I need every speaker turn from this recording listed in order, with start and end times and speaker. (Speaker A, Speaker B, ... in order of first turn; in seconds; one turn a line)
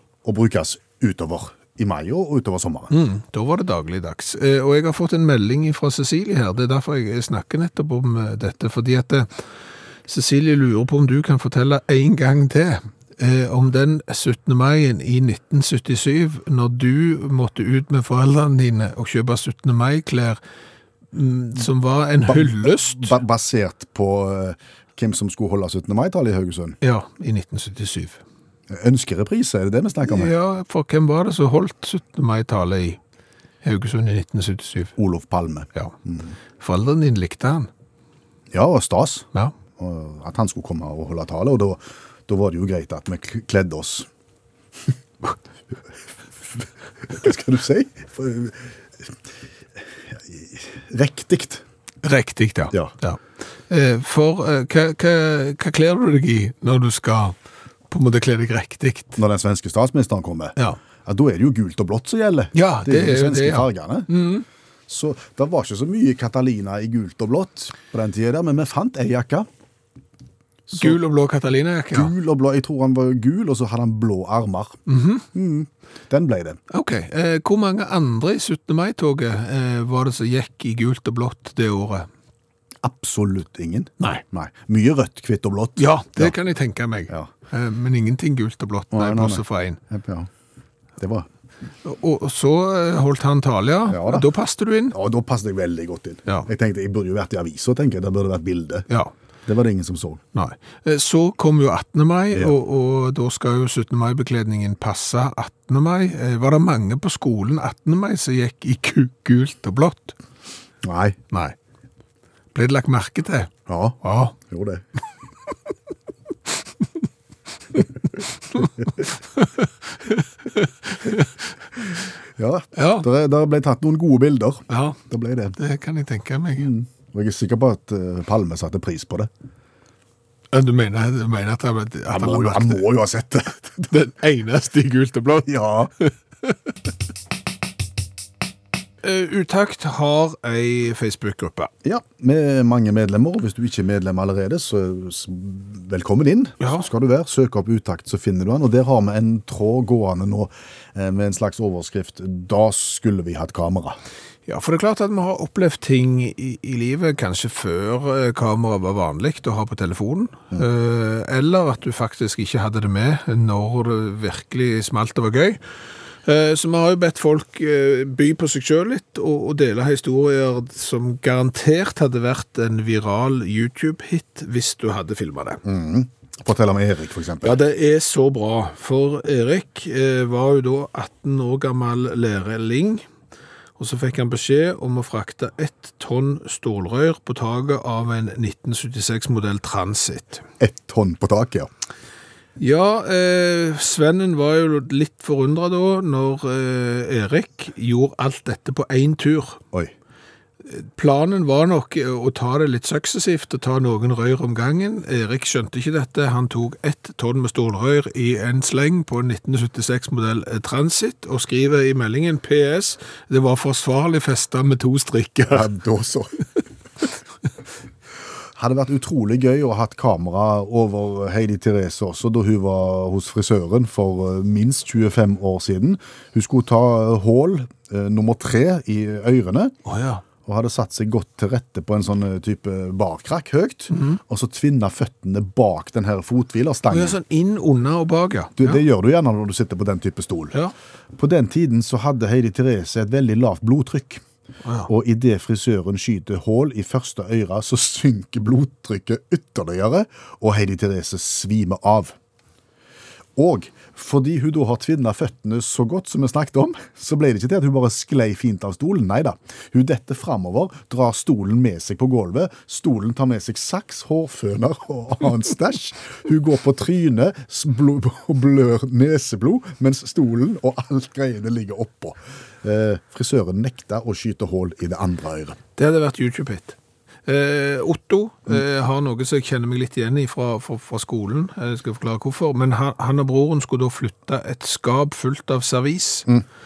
Speaker A: 0.2-2.9
Speaker B: 2.9-9.3
Speaker B: 10.1-20.4
Speaker B: 21.1-23.2
Speaker A: 22.3-26.8
Speaker B: 26.8-28.2
Speaker A: 28.7-30.3
Speaker B: 30.1-33.0
Speaker B: 33.6-34.9
Speaker A: 35.0-36.3
Speaker B: 36.6-37.7
Speaker A: 38.5-44.1
Speaker A: 47.1-49.1
Speaker A: 50.1-51.6
Speaker B: 52.0-57.4
Speaker B: 57.9-59.2
Speaker A: 59.2-64.1
Speaker B: 62.5-64.5
Speaker A: 64.9-69.5
Speaker A: 70.7-71.0
Speaker B: 70.7-72.1
Speaker A: 71.9-74.8
Speaker B: 74.9-75.2
Speaker A: 75.3-76.6
Speaker B: 76.7-82.1
Speaker A: 82.8-86.3
Speaker B: 85.8-89.8
Speaker A: 88.9-90.3
Speaker A: 91.0-91.3
Speaker B: 91.8-95.0
Speaker A: 93.9-94.3
Speaker A: 94.9-98.9
Speaker A: 99.5-100.2
Speaker B: 100.3-110.2
Speaker A: 110.8-111.2
Speaker B: 112.5-114.3
Speaker A: 113.7-114.8
Speaker B: 119.4-121.3
Speaker A: 122.4-125.6
Speaker B: 122.8-123.1
Speaker B: 124.7-125.0
Speaker B: 125.6-126.7
Speaker A: 126.6-129.3
Speaker B: 130.5-132.8
Speaker A: 132.1-133.9
Speaker B: 133.9-136.5
Speaker A: 135.4-135.9
Speaker B: 139.0-141.7
Speaker A: 141.8-154.0
Speaker B: 146.6-146.9
Speaker B: 154.5-165.6
Speaker B: 166.2-175.6
Speaker A: 175.6-177.6
Speaker B: 177.4-183.0
Speaker B: 183.8-190.4
Speaker A: 190.6-191.7
Speaker B: 192.6-199.6
Speaker B: 200.7-215.7
Speaker A: 215.5-216.4
Speaker A: 218.6-229.7
Speaker B: 229.9-230.2
Speaker A: 230.5-237.2
Speaker B: 233.9-234.2
Speaker B: 236.9-238.8
Speaker A: 238.6-240.6
Speaker A: 241.2-244.2
Speaker B: 244.7-244.9
Speaker A: 244.9-252.2
Speaker A: 253.4-275.6
Speaker B: 275.8-286.3